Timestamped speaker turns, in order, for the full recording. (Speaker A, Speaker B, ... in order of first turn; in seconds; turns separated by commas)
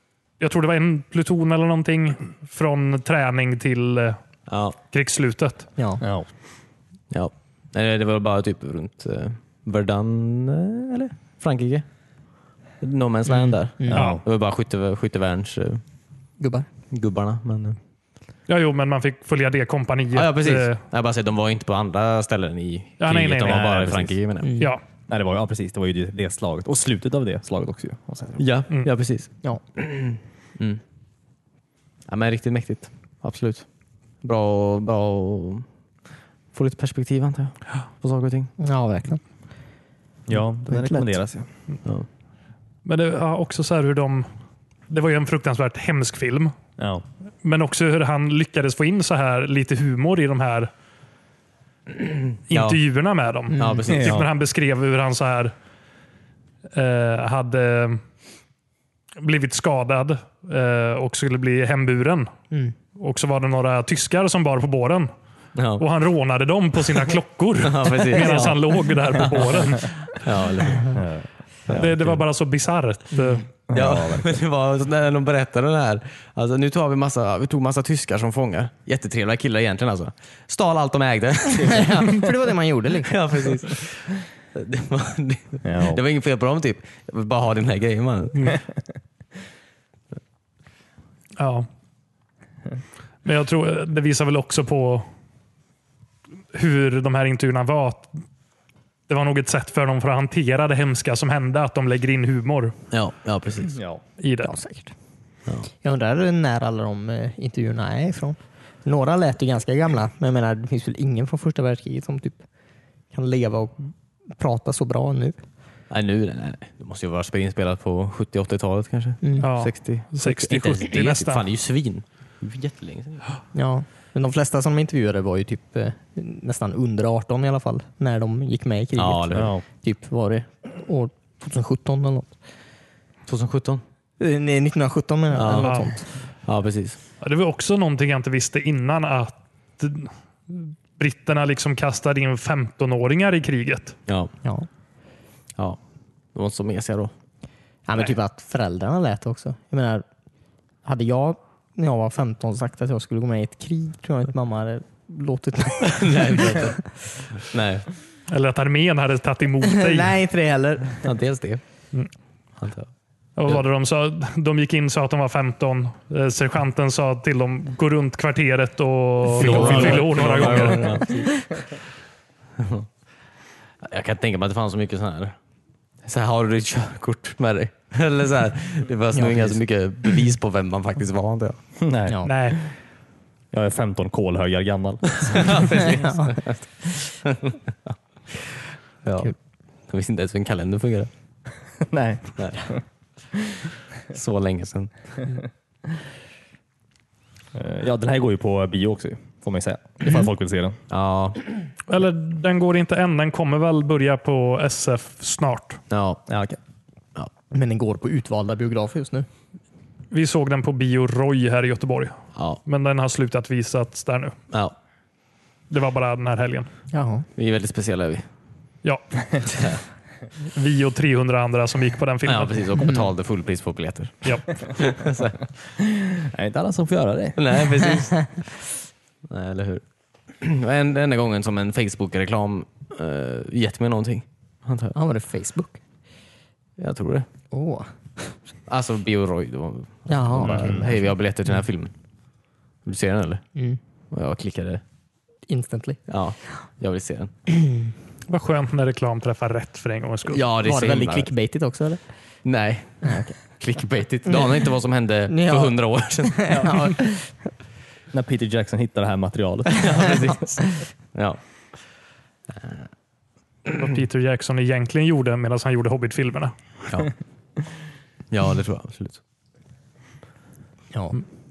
Speaker A: 0.4-4.2, Speaker B: 4.5-4.8, Speaker A: 4.9-5.7, Speaker C: 5.8-6.0, Speaker D: 6.0-6.3, Speaker B: 7.1-11.8, Speaker B: 12.8-15.8, Speaker C: 13.3-14.1, Speaker D: 13.9-14.2, Speaker C: 16.4-16.7, Speaker B: 16.9-17.8, Speaker A: 18.5-20.8, Speaker B: 20.1-24.6, Speaker A: 23.0-23.6, Speaker D: 23.4-24.1, Speaker C: 24.4-24.7, Speaker D: 25.1-28.4, Speaker B: 28.4-30.8, Speaker B: 32.1-33.6, Speaker B: 34.2-35.6, Speaker B: 36.5-38.5, Speaker C: 38.6-39.2, Speaker D: 40.3-41.5, Speaker C: 40.7-41.1, Speaker A: 42.8-44.3, Speaker A: 44.9-46.5, Speaker D: 46.8-47.0, Speaker A: 47.4-50.7, Speaker B: 52.0-52.8, Speaker A: 52.5-55.5, Speaker C: 53.5-53.9, Speaker B: 53.5-54.2, Speaker D: 53.9-54.3, Speaker A: 56.7-58.0, Speaker A: 59.2-62.3, Speaker A: 63.0-65.1, Speaker B: 65.5-65.8, Speaker A: 65.8-69.9, Speaker B: 67.6-68.6, Speaker B: 69.2-71.0, Speaker D: 70.9-72.2, Speaker A: 71.7-73.4, Speaker D: 73.7-74.4, Speaker B: 73.7-82.2, Speaker C: 81.6-83.2, Speaker B: 83.0-88.6, Speaker D: 85.6-86.0, Speaker A: 91.4-91.7, Speaker A: 93.2-95.1, Speaker A: 96.5-98.2, Speaker A: 99.1-102.7, Speaker B: 102.9-103.8, Speaker D: 103.7-104.0, Speaker A: 104.2-104.5, Speaker C: 104.4-104.9, Speaker C: 105.8-112.4, Speaker C: 113.1-115.4, Speaker B: 115.9-123.2, Speaker C: 119.2-119.5, Speaker A: 119.4-121.4, Speaker C: 123.5-132.4, Speaker B: 129.0-129.5, Speaker D: 129.3-129.6, Speaker B: 133.3-133.8, Speaker C: 134.2-136.0, Speaker B: 135.3-135.9, Speaker A: 135.6-135.9, Speaker B: 136.4-137.0, Speaker A: 137.2-143.9, Speaker B: 146.3-147.1, Speaker C: 147.8-150.0, Speaker C: 150.8-156.8, Speaker B: 155.8-156.8, Speaker B: 157.3-157.9, Speaker A: 158.3-160.2, Speaker C: 159.7-161.0, Speaker B: 161.0-161.6, Speaker B: 162.6-162.9, Speaker A: 163.4-171.0, Speaker B: 169.3-171.5, Speaker C: 169.4-170.8, Speaker B: 172.6-172.9, Speaker B: 173.8-175.3, Speaker B: 176.0-181.6, Speaker C: 179.1-179.6, Speaker D: 181.8-182.3, Speaker A: 182.2-182.6, Speaker D: 183.5-185.7, Speaker B: 185.2-189.3, Speaker C: 185.7-186.4, Speaker B: 189.9-191.1, Speaker D: 191.8-192.8, Speaker B: 192.4-192.7, Speaker B: 194.1-194.9, Speaker D: 197.5-200.8, Speaker B: 200.9-201.4, Speaker A: 201.9-205.8, Speaker B: 205.9-206.2, Speaker D: 206.3-206.6, Speaker C: 207.5-209.3, Speaker A: 210.1-214.3, Speaker B: 212.3-212.6, Speaker A: 215.7-216.7, Speaker C: 216.9-217.2, Speaker B: 217.4-218.2, Speaker B: 219.5-219.8, Speaker A: 220.5-222.7, Speaker B: 222.2-225.5, Speaker D: 225.8-227.4, Speaker B: 227.3-228.4, Speaker B: 229.3-229.8, Speaker B: 230.4-234.9, Speaker C: 234.9-235.8, Speaker B: 236.8-237.3, Speaker C: 237.5-238.3, Speaker B: 238.7-241.9, Speaker C: 240.1-241.1, Speaker D: 240.4-240.8, Speaker B: 242.8-243.4, Speaker B: 244.1-244.8, Speaker C: 245.5-246.0, Speaker B: 246.1-247.3, Speaker C: 247.5-247.9, Speaker A: 248.3-250.4, Speaker B: 250.3-251.3, Speaker C: 250.6-252.0, Speaker B: 252.4-256.9, Speaker C: 253.0-253.3, Speaker C: 254.3-254.7, Speaker C: 255.3-257.3, Speaker D: 258.1-260.1, Speaker B: 259.8-261.4, Speaker B: 262.6-262.8, Speaker A: 263.7-266.5, Speaker B: 268.3-269.2, Speaker C: 270.9-271.2